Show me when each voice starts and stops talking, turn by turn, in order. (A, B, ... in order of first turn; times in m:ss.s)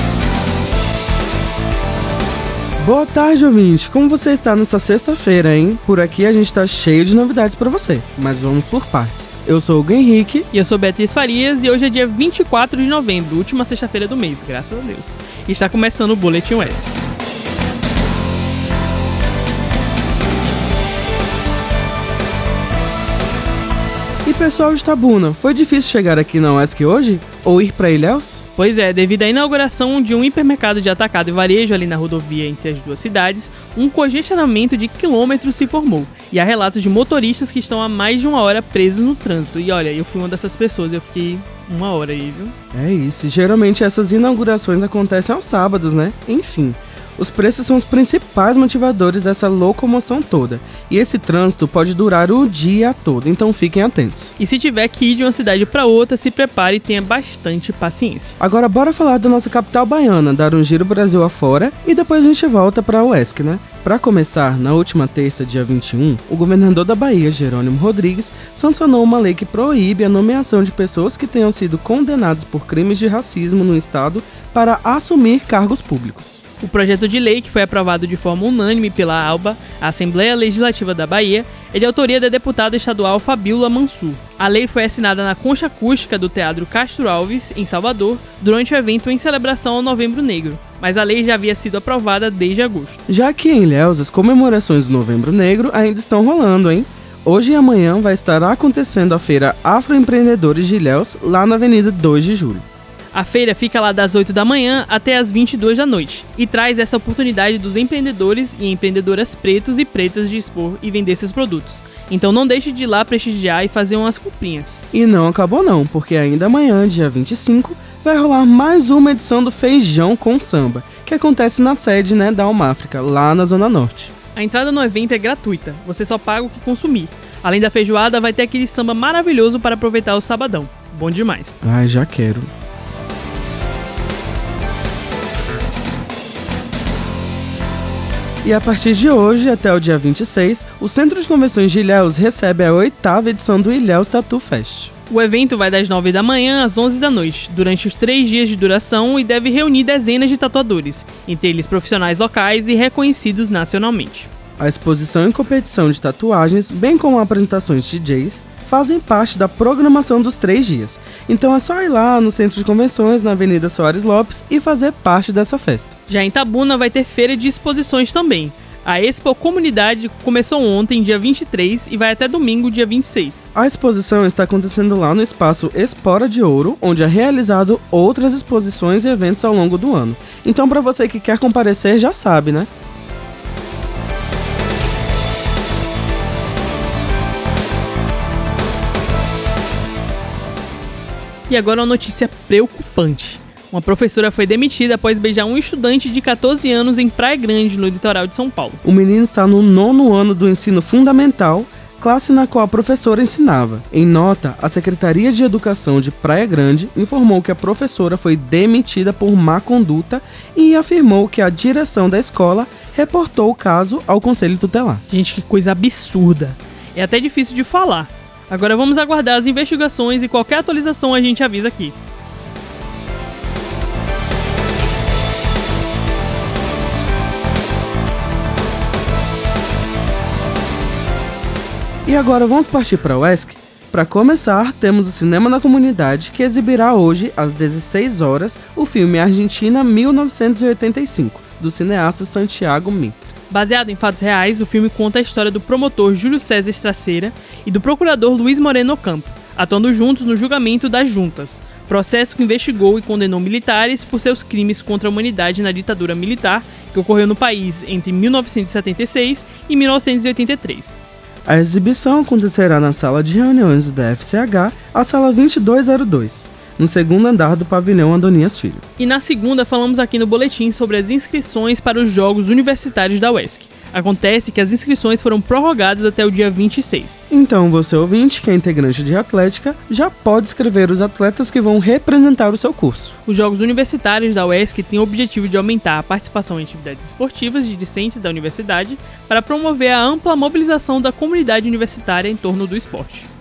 0:02.8-0:10.5 A
0:10.5-0:16.9 B
0:24.2-0:28.4 A
0:28.6-0:42.5 B
0:42.7-0:54.3 A
0:54.4-0:58.3 B
0:58.4-1:16.4 A
1:16.6-1:33.0 B
1:33.1-1:42.6 A
1:43.1-1:54.8 B
1:54.9-2:04.1 A
2:04.3-2:11.5 B
2:11.6-2:12.5 A
2:18.4-2:24.9 A
2:25.1-2:34.3 B
2:34.6-2:45.9 A
2:46.1-2:53.5 B
2:53.6-3:02.7 A
3:11.5-3:18.8 B
3:18.8-3:35.0 A
3:35.1-3:41.9 B
3:52.1-4:03.2 A
4:03.5-4:21.0 B
4:21.4-4:28.8 A
4:29.0-4:37.2 B
4:37.3-4:43.1 A
4:43.2-4:53.3 B